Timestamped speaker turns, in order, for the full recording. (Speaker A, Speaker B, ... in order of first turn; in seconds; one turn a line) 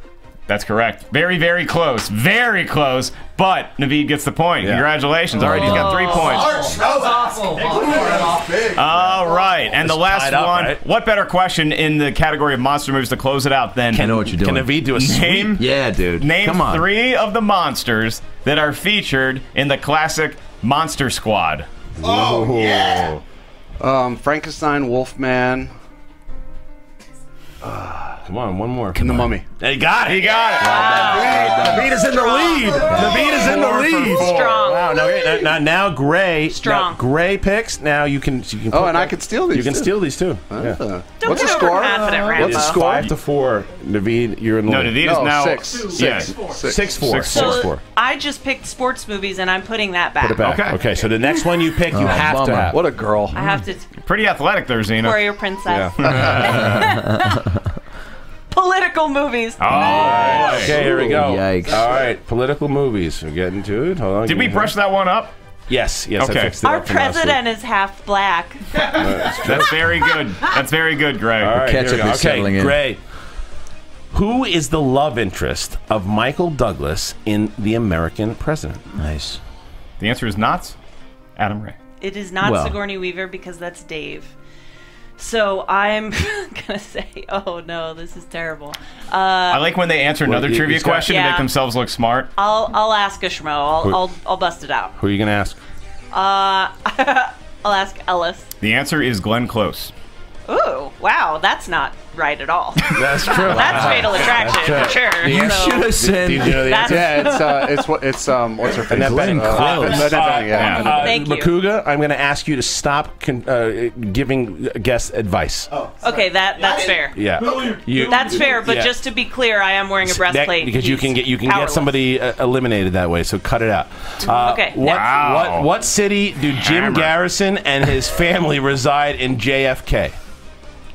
Speaker A: 0.5-6.9
Speaker B: 4.6-4.9
Speaker C: 5.4-5.9
Speaker D: 5.4-6.7
Speaker A: 8.7-14.1
Speaker B: 9.8-10.8
Speaker B: 13.9-15.6
Speaker C: 14.0-14.8
Speaker A: 14.9-15.7
Speaker C: 15.5-16.9
Speaker A: 16.2-21.7
Speaker B: 22.0-23.2
Speaker E: 23.8-25.7
Speaker E: 27.6-28.2
Speaker B: 28.2-29.0
Speaker C: 28.9-29.3
Speaker E: 28.9-29.4
Speaker B: 29.6-40.8
Speaker A: 30.0-31.2
Speaker D: 30.6-31.6
Speaker C: 30.6-31.9
Speaker E: 31.2-31.9
Speaker D: 32.5-32.9
Speaker C: 32.8-33.4
Speaker A: 33.2-34.7
Speaker E: 33.4-33.8
Speaker D: 34.1-35.1
Speaker D: 36.5-37.0
Speaker E: 38.7-43.1
Speaker D: 41.2-42.8
Speaker B: 42.2-45.0
Speaker A: 44.7-47.7
Speaker E: 45.0-46.9
Speaker B: 46.1-47.8
Speaker D: 47.3-50.5
Speaker B: 50.2-52.8
Speaker A: 50.4-50.8
Speaker C: 51.9-52.8
Speaker E: 52.7-53.5
Speaker D: 53.3-53.9
Speaker A: 54.0-55.2
Speaker D: 55.0-57.4
Speaker B: 55.7-56.5
Speaker A: 56.0-56.6
Speaker C: 56.5-57.0
Speaker D: 58.5-60.7
Speaker A: 59.6-60.8
Speaker B: 59.7-64.8
Speaker C: 60.7-61.9
Speaker A: 64.2-65.3
Speaker B: 65.7-67.4
Speaker A: 66.2-66.6
Speaker D: 66.6-68.6
Speaker B: 68.8-69.9
Speaker A: 69.3-71.7
Speaker B: 71.4-73.0
Speaker C: 71.5-72.8
Speaker B: 74.1-78.8
Speaker C: 79.0-79.4
Speaker A: 80.0-80.8
Speaker A: 81.4-81.8
Speaker D: 82.0-84.3
Speaker C: 82.4-82.8
Speaker D: 85.2-89.7
Speaker A: 89.5-92.3
Speaker B: 90.2-91.1
Speaker D: 91.0-91.5
Speaker D: 92.4-95.0
Speaker B: 95.0-95.6
Speaker D: 96.1-98.5
Speaker A: 98.6-99.9
Speaker D: 100.5-107.8
Speaker B: 102.9-107.3
Speaker E: 103.4-103.7
Speaker A: 103.7-104.1
Speaker C: 105.2-106.9
Speaker E: 106.9-110.8
Speaker B: 108.9-115.7
Speaker C: 108.9-110.2
Speaker A: 109.9-111.1
Speaker D: 110.5-111.7
Speaker D: 116.0-122.0
Speaker B: 117.1-119.0
Speaker B: 120.0-130.2
Speaker D: 124.2-125.1
Speaker A: 124.8-125.7
Speaker A: 126.5-127.1